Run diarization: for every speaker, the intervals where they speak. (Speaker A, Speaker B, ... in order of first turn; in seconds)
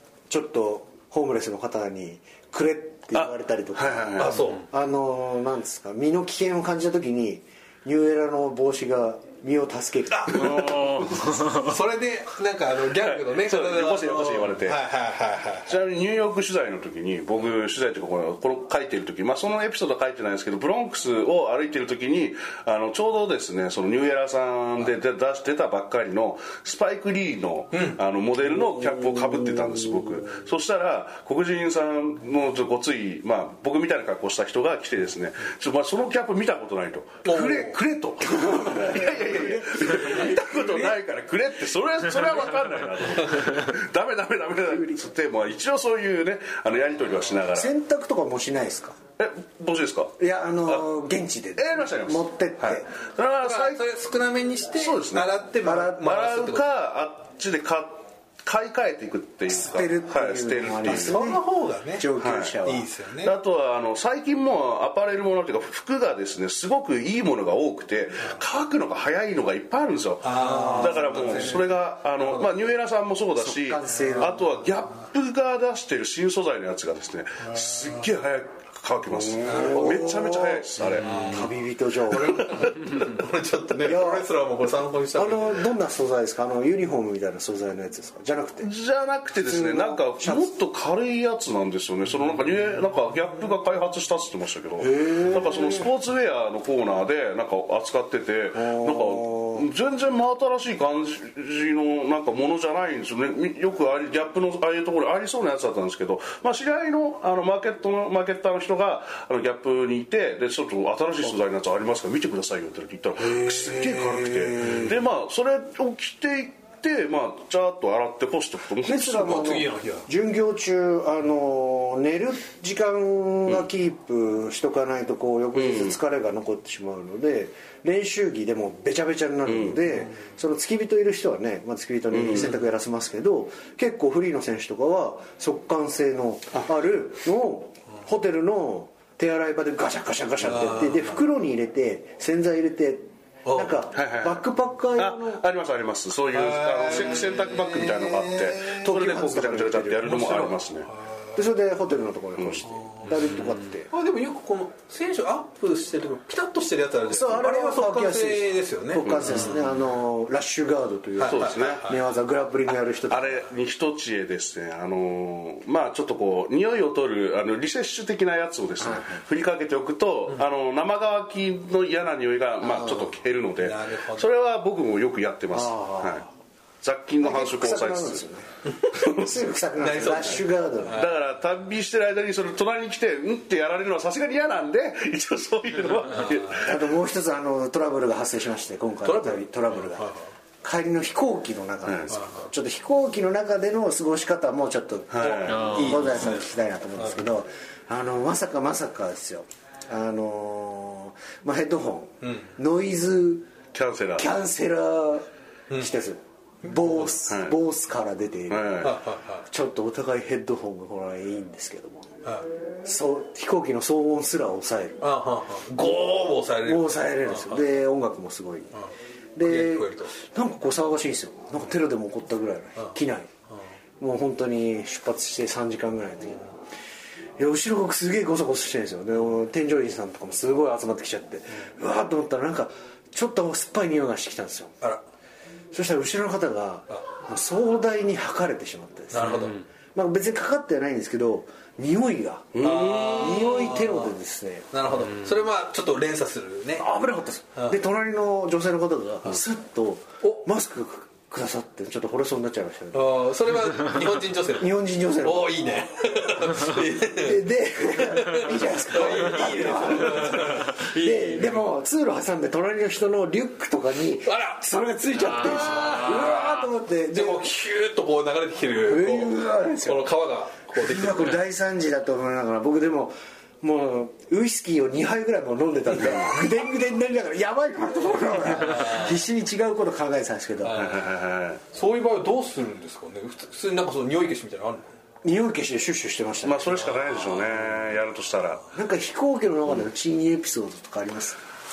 Speaker A: 0.3-11.0, 38.2-40.9, 47.5-49.0, 50.2-52.9, 55.6-56.0, 59.5-62.9, 70.6-71.6, 73.4-74.5, 79.2-82.6, 83.8-84.3, 85.1-88.7, 89.4-90.5, 94.8-95.9, 98.5-99.7, 118.8-145.4, 148.8-150.6, 151.3-153.9, 157.1-163.5, 168.8-169.2, 175.5-176.2, 177.2-181.1, 186.6-190.1, 190.6-203.5, 204.2-208.9, 209.5-212.1, 212.8-215.0, 216.6-218.8, 219.3-223.3, 224.0-226.5, 227.4-234.8, 235.7-244.7, 246.8-253.2, 254.6-255.6, 257.1-267.5, 268.8-270.1, 270.7-280.9, 285.2-286.9, 288.7-291.4
Speaker B: 3.1-4.4, 10.3-11.2, 12.9-14.8, 15.7-47.7, 49.2-50.1, 51.6-53.9, 54.7-61.2, 62.2-62.6, 63.2-81.1, 82.2-83.1, 88.6-119.5, 125.5-126.0, 129.5-129.8, 132.1-132.5, 143.9-150.9, 152.4-152.7, 159.0-159.5, 161.2-161.9, 163.1-176.2, 176.8-178.2, 178.9-179.3, 180.9-186.8, 191.8-192.1, 195.1-196.0, 203.7-204.3, 207.3-207.5, 208.5-209.0, 242.5-243.6, 280.7-281.6, 286.4-288.6
Speaker C: 4.2-4.6, 10.1-15.8, 27.7-28.0, 28.6-29.8, 37.2-37.8, 53.4-56.6, 60.9-62.1, 62.6-63.4, 70.2-71.7, 72.2-72.5, 79.5-80.0, 81.0-81.5, 82.1-85.6, 113.3-114.8, 119.1-120.0, 140.4-141.1, 143.4-143.8, 146.3-148.9, 153.9-159.6, 161.2-162.0, 172.7-173.0, 173.6-174.3, 179.8-181.1, 189.0-190.3, 192.1-192.5, 195.2-197.1, 202.2-202.5, 208.8-209.4, 215.0-217.6, 219.4-220.1, 239.1-239.6, 242.6-244.1, 244.7-246.8, 252.9-257.4, 258.0-261.6, 264.2-264.6, 265.2-266.6, 267.1-271.4, 278.6-279.1, 280.6-281.0, 281.7-284.9